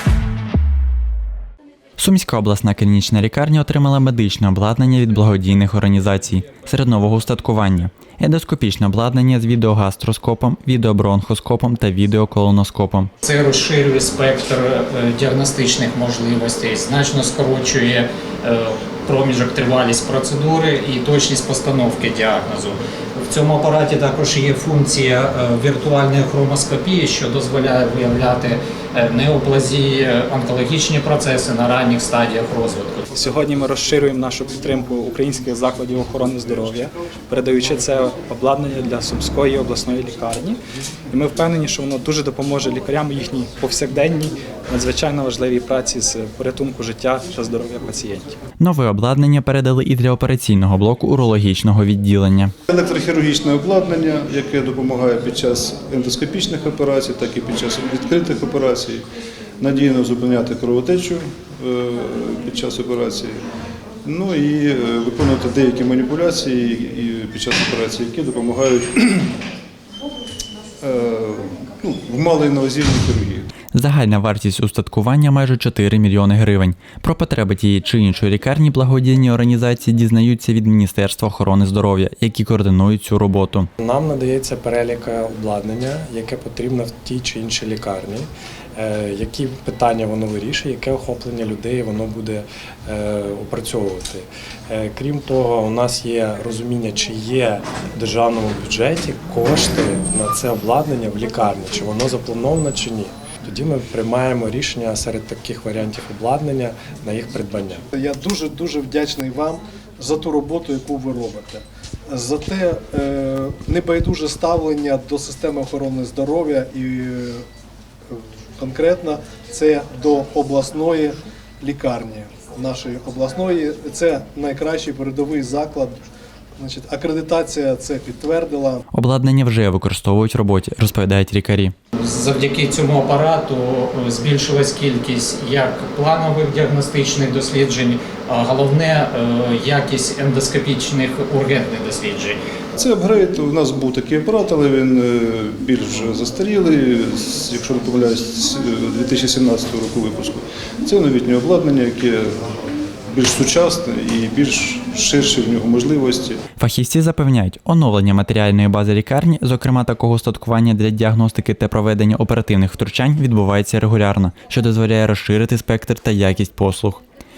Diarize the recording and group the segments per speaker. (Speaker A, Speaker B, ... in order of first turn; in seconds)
Speaker A: 2.0-13.1, 48.6-52.5, 73.7-83.7, 128.9-131.7, 156.6-167.0
Speaker B: 13.2-33.0, 132.0-142.4
Speaker C: 33.2-40.6, 41.1-48.4
Speaker D: 52.7-59.0, 59.6-63.4, 64.0-69.3, 70.8-73.5, 142.8-152.3, 153.1-156.4
Speaker E: 83.8-107.8
Speaker F: 107.9-117.4, 118.1-126.0, 126.6-128.8